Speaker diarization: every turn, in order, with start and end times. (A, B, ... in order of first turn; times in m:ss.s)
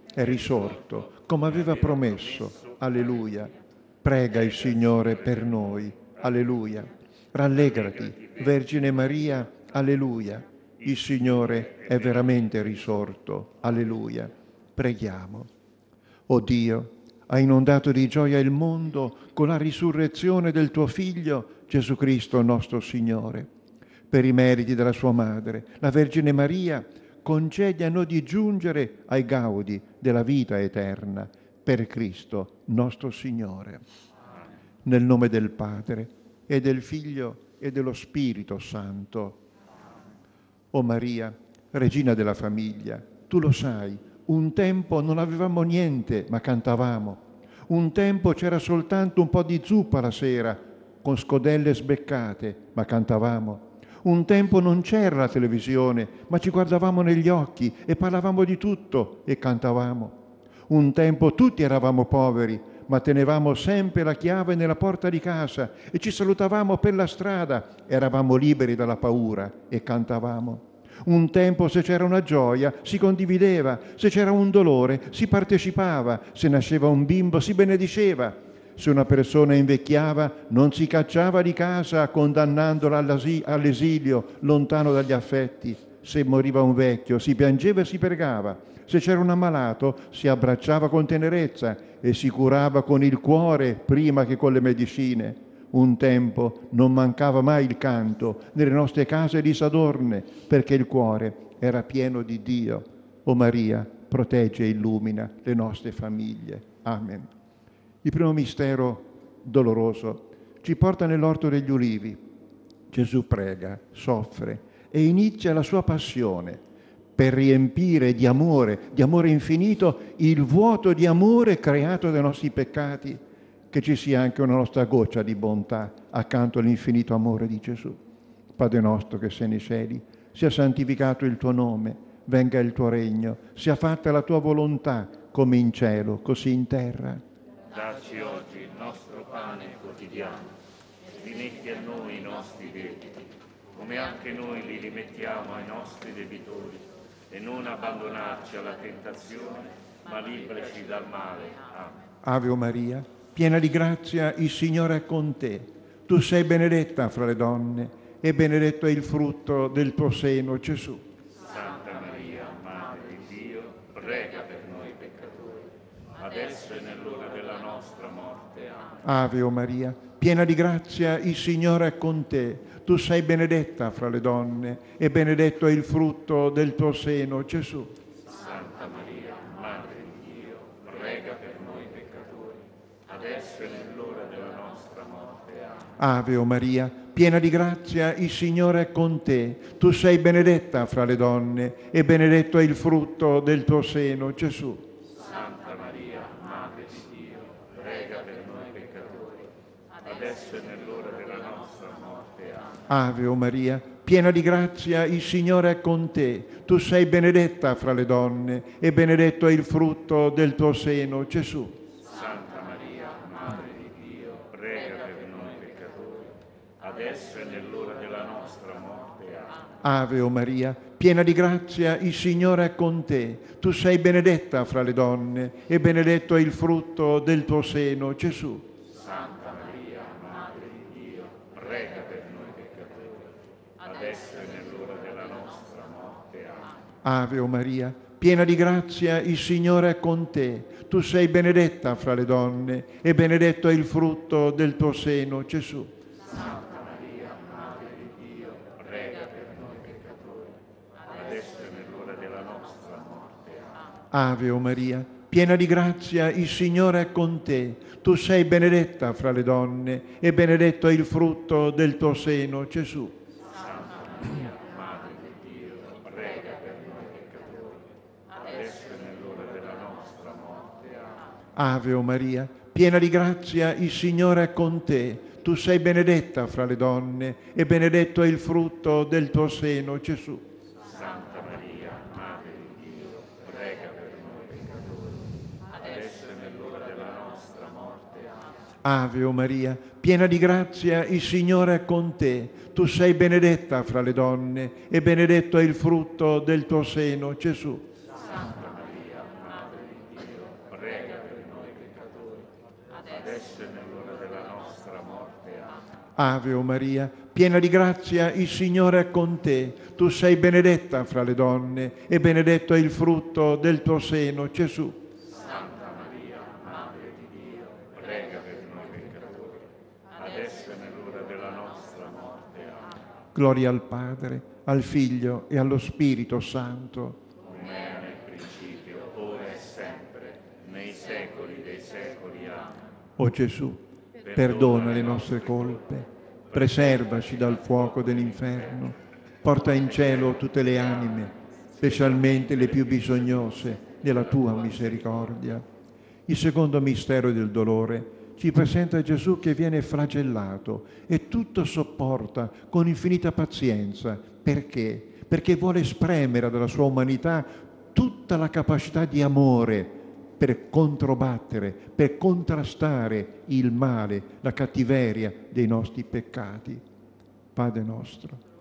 0:00.1-0:15.5 A
0:16.3-0:23.5 A
0:24.1-0:33.8 A
0:34.8-0:39.4 A
0:40.7-1:00.2 A
1:00.7-1:47.3 A
1:48.0-1:52.2 A
1:52.9-1:56.6 A
1:57.2-2:08.0 A
2:08.6-2:17.2 A
2:17.7-2:20.5 B
2:21.2-2:32.0 B
2:32.2-2:41.0 A
2:41.4-2:49.0 B
2:49.0-2:57.9 A
2:58.2-3:05.9 B
3:06.0-3:14.8 A
3:15.1-3:22.8 B
3:22.9-3:31.8 A
3:32.0-3:39.7 B
3:39.8-3:48.7 A
3:48.9-3:56.7 B
3:57.0-4:05.9 A
4:06.3-4:10.6 B
4:11.1-4:13.8 B
4:14.1-4:23.2 A
4:23.5-4:31.2 B
4:31.6-4:40.5 A
4:40.8-4:48.4 B
4:48.8-4:57.9 A
4:58.2-5:05.8 B
5:06.2-5:15.0 A
5:15.3-5:22.9 B
5:23.3-5:27.2 A
5:27.4-5:32.8 B
5:33.2-5:33.8 A
5:34.2-5:35.8 B
5:34.3-5:45.6 A
5:36.5-5:38.6 B
5:42.3-5:43.3 B
5:46.3-6:06.8 A
6:07.6-6:08.4 A